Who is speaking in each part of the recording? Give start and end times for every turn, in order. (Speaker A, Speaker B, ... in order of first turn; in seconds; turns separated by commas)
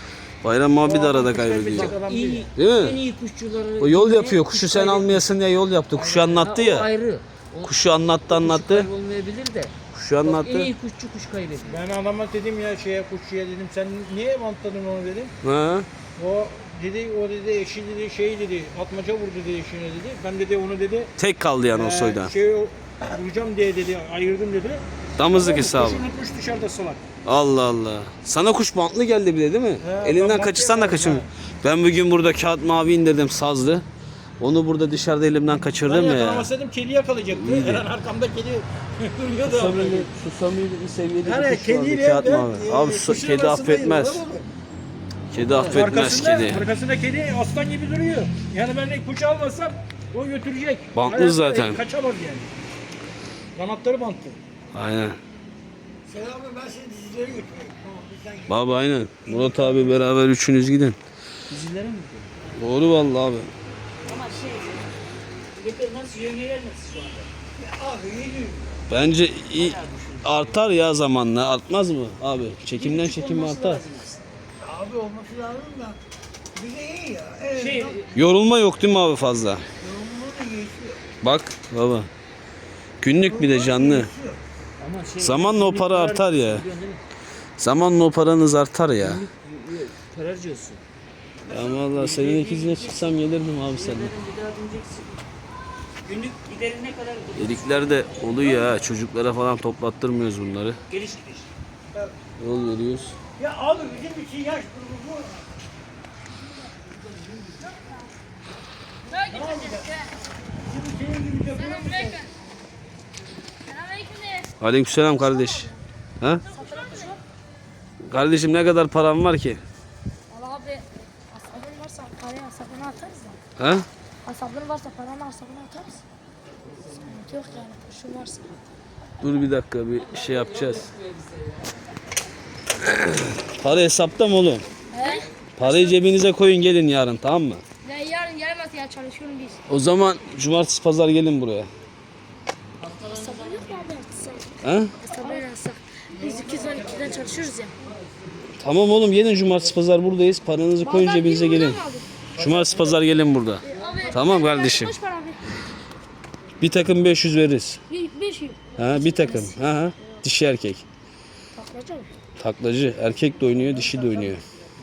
Speaker A: 0.4-2.0, Speaker B: 0.8-2.5, Speaker C: 1.7-5.3, Speaker A: 2.5-3.0, Speaker A: 3.8-6.9, Speaker B: 6.0-6.4, Speaker C: 6.3-11.8, Speaker A: 7.6-8.9, Speaker A: 9.9-10.7, Speaker B: 11.7-15.3, Speaker A: 15.4-15.9, Speaker B: 16.1-21.1, Speaker A: 21.2-22.3, Speaker B: 21.7-27.0, Speaker A: 25.2-26.0, Speaker A: 27.2-33.8, Speaker B: 29.8-31.3, Speaker A: 34.4-36.5, Speaker B: 35.8-40.1, Speaker A: 37.3-37.9, Speaker A: 39.4-44.3, Speaker B: 41.2-44.1, Speaker C: 45.3-46.1, Speaker A: 45.3-46.7, Speaker B: 45.7-52.5, Speaker A: 50.9-51.8, Speaker B: 53.5-54.4, Speaker A: 54.7-55.2, Speaker D: 56.0-60.0, Speaker A: 58.5-61.0, Speaker C: 61.5-62.4, Speaker A: 62.5-63.5, Speaker C: 64.0-65.0, Speaker C: 65.5-67.3, Speaker D: 67.5-68.7, Speaker A: 68.9-73.8, Speaker C: 69.5-70.6, Speaker C: 72.7-74.2, Speaker D: 74.6-76.0, Speaker D: 76.5-78.0, Speaker C: 77.5-78.1, Speaker A: 78.1-79.6, Speaker D: 79.8-81.0, Speaker A: 81.2-82.1, Speaker A: 83.0-84.1, Speaker D: 83.2-84.4, Speaker C: 84.8-87.0, Speaker A: 85.2-86.7, Speaker A: 87.6-89.2, Speaker C: 89.0-90.8, Speaker C: 91.5-95.2, Speaker A: 91.5-94.1, Speaker C: 96.0-98.8, Speaker A: 97.3-100.8, Speaker C: 100.9-101.5, Speaker D: 101.9-102.2, Speaker A: 102.4-103.2, Speaker D: 103.3-105.6, Speaker E: 109.1-110.1, Speaker D: 109.3-109.9, Speaker D: 110.5-112.2, Speaker E: 111.5-112.3, Speaker E: 113.7-114.5, Speaker A: 114.6-116.4, Speaker E: 115.0-115.8, Speaker E: 116.5-117.2, Speaker A: 118.0-119.6, Speaker E: 120.3-123.4, Speaker A: 123.6-123.8, Speaker E: 124.2-126.0, Speaker E: 127.0-128.6, Speaker A: 129.2-130.9, Speaker A: 132.8-134.7, Speaker E: 134.9-135.9, Speaker A: 135.6-137.6, Speaker E: 137.8-139.6, Speaker A: 139.7-141.7, Speaker E: 143.1-147.7, Speaker A: 144.6-144.9, Speaker D: 146.2-147.1, Speaker A: 148.6-151.8, Speaker E: 150.8-152.3, Speaker A: 152.3-154.9, Speaker E: 153.6-155.4, Speaker D: 153.7-154.2, Speaker A: 156.6-157.8, Speaker E: 157.9-159.6, Speaker A: 158.8-160.8, Speaker E: 161.5-162.1, Speaker A: 162.4-164.4